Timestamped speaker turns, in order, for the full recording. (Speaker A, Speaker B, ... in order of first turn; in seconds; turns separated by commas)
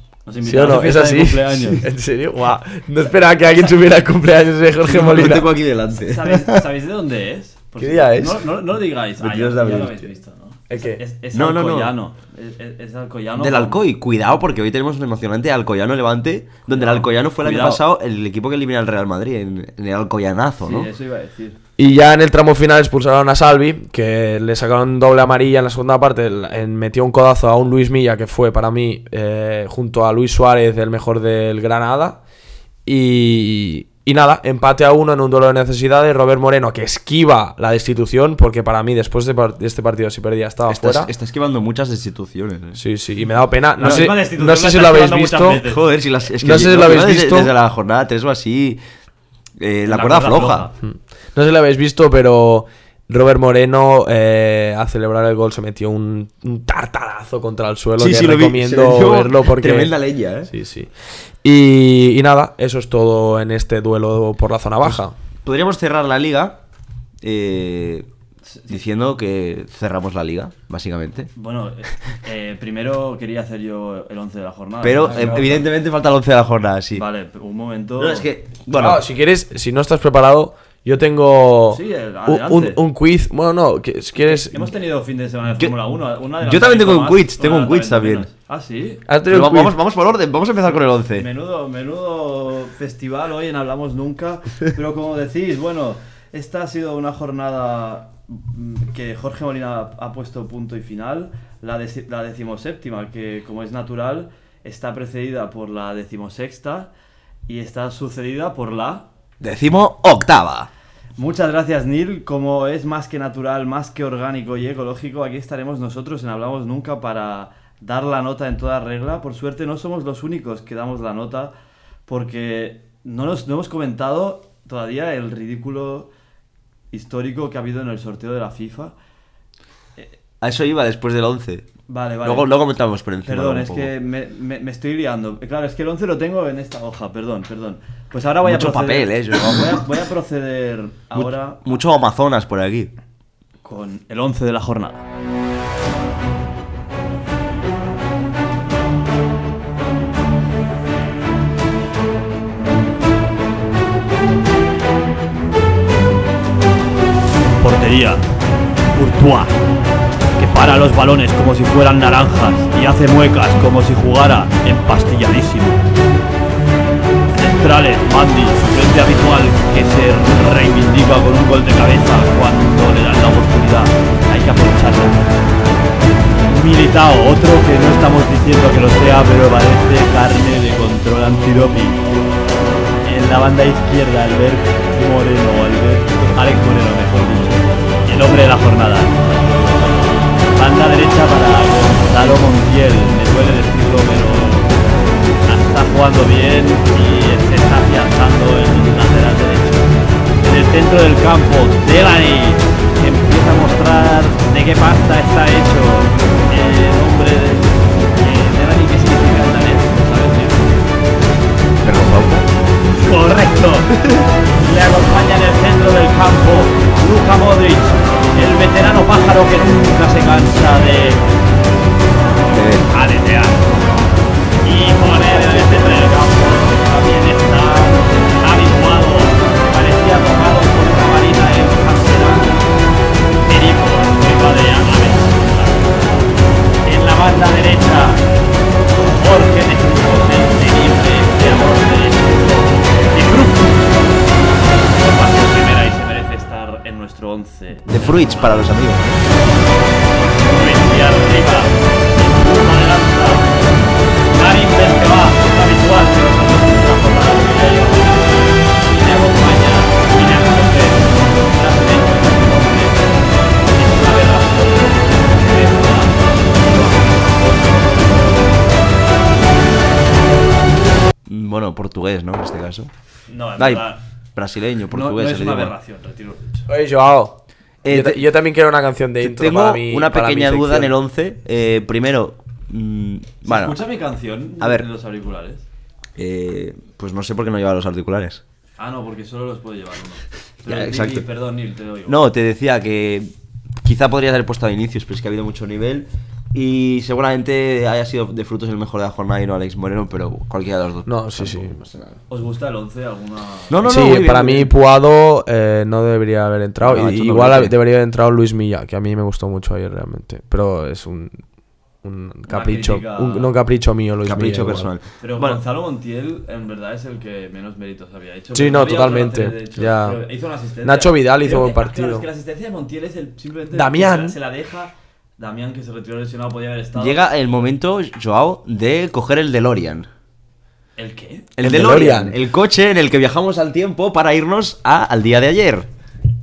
Speaker A: 0.2-1.8, Speaker B: 0.4-5.5, Speaker C: 4.8-6.6, Speaker A: 5.9-13.8, Speaker B: 7.8-8.3, Speaker C: 9.2-10.0, Speaker B: 10.7-11.0, Speaker C: 11.3-11.9, Speaker C: 13.4-20.9, Speaker A: 16.7-17.8, Speaker A: 20.6-21.6, Speaker B: 21.8-32.2, Speaker B: 32.9-41.1, Speaker C: 40.7-42.8, Speaker B: 42.8-45.6, Speaker A: 43.8-45.8, Speaker C: 43.8-44.1, Speaker C: 45.6-48.8, Speaker B: 46.4-47.5, Speaker C: 49.6-50.7, Speaker A: 49.9-50.7, Speaker B: 50.8-59.9, Speaker C: 58.0-60.5, Speaker B: 60.5-60.9, Speaker B: 61.4-65.1, Speaker C: 64.8-66.6, Speaker C: 67.2-68.1, Speaker A: 68.4-68.8, Speaker C: 68.7-71.3, Speaker A: 71.3-75.7, Speaker C: 74.8-77.0, Speaker A: 76.9-78.3, Speaker C: 78.0-79.0, Speaker B: 78.7-84.7, Speaker A: 81.7-82.8, Speaker A: 84.2-89.0, Speaker C: 86.4-88.3, Speaker B: 89.1-89.7, Speaker C: 89.3-91.3, Speaker A: 91.1-106.9, Speaker A: 107.5-109.1, Speaker C: 109.4-110.7, Speaker A: 111.2-121.5, Speaker A: 122.1-126.1, Speaker A: 126.9-128.9, Speaker C: 130.4-131.7, Speaker A: 131.9-132.5, Speaker C: 132.2-133.9, Speaker A: 133.2-141.7, Speaker C: 138.4-139.9, Speaker C: 141.1-142.9, Speaker A: 143.6-145.0, Speaker A: 157.4-158.2, Speaker A: 158.9-159.6, Speaker A: 160.4-165.8, Speaker A: 167.3-175.3, Speaker A: 176.5-182.1, Speaker A: 183.0-194.8, Speaker A: 195.4-210.8, Speaker C: 211.8-212.5, Speaker A: 212.9-213.9, Speaker C: 213.9-214.3, Speaker A: 214.6-221.2, Speaker C: 222.5-222.9, Speaker A: 222.9-223.9, Speaker A: 224.6-232.7, Speaker A: 233.4-236.3, Speaker A: 236.8-238.2, Speaker A: 238.9-244.1, Speaker A: 244.7-248.7, Speaker C: 247.9-249.3, Speaker A: 250.4-253.6, Speaker A: 254.3-268.6, Speaker C: 271.2-272.9, Speaker A: 273.3-274.0, Speaker C: 273.6-275.7, Speaker A: 274.9-276.6, Speaker B: 276.7-280.9, Speaker C: 277.8-278.2, Speaker C: 279.2-283.8, Speaker A: 283.4-285.6, Speaker C: 284.6-284.9, Speaker C: 286.1-288.4, Speaker A: 288.8-292.2, Speaker C: 290.6-291.3, Speaker C: 292.1-302.2, Speaker B: 301.1-301.8, Speaker A: 302.3-303.9, Speaker C: 303.7-304.7, Speaker B: 303.8-311.4, Speaker C: 306.8-307.7, Speaker B: 312.0-314.9, Speaker A: 312.5-313.5, Speaker C: 314.2-315.6, Speaker A: 315.2-327.2, Speaker B: 318.5-320.2, Speaker B: 320.8-322.2, Speaker B: 323.7-324.4, Speaker C: 326.9-330.1, Speaker A: 331.0-331.5, Speaker C: 331.6-335.9, Speaker B: 331.6-332.4